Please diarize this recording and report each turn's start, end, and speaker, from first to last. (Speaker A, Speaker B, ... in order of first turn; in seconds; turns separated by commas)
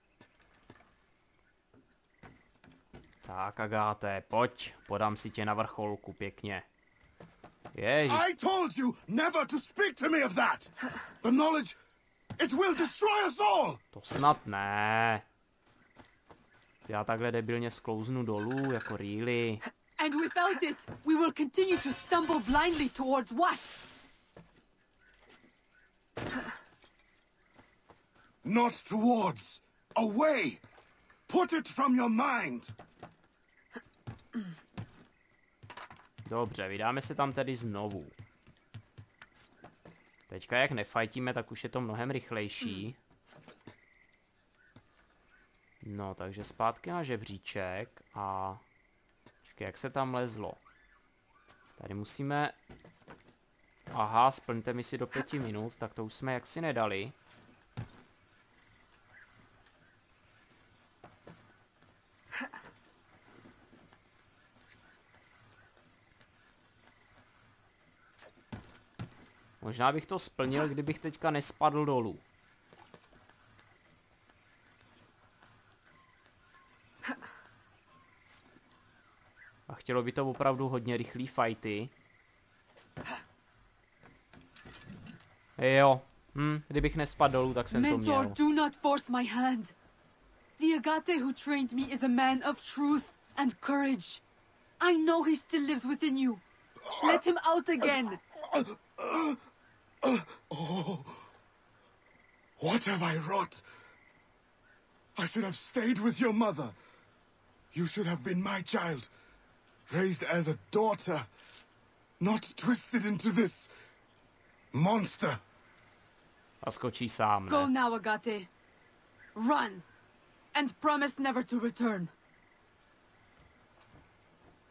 Speaker A: 3.2-6.7, Speaker A: 7.7-8.3, Speaker B: 8.1-11.8, Speaker B: 12.4-13.8, Speaker A: 13.9-15.2, Speaker A: 16.9-19.6, Speaker C: 20.0-23.8, Speaker B: 28.4-30.6, Speaker B: 31.3-32.7, Speaker A: 36.2-38.1, Speaker A: 40.3-43.0, Speaker A: 45.8-48.6, Speaker A: 49.4-50.6, Speaker A: 51.8-52.6, Speaker A: 53.9-57.1, Speaker A: 69.6-72.2, Speaker A: 79.7-81.9, Speaker A: 85.6-88.4, Speaker C: 87.7-89.8, Speaker C: 90.6-94.2, Speaker C: 94.8-96.4, Speaker C: 97.0-98.2, Speaker B: 98.5-99.4, Speaker B: 100.0-101.2, Speaker B: 102.6-103.6, Speaker B: 105.2-106.7, Speaker B: 107.7-109.1, Speaker B: 109.9-111.3, Speaker B: 112.2-113.7, Speaker B: 114.7-115.4, Speaker A: 116.6-117.7, Speaker C: 117.5-118.5, Speaker C: 119.3-119.8, Speaker C: 120.5-122.1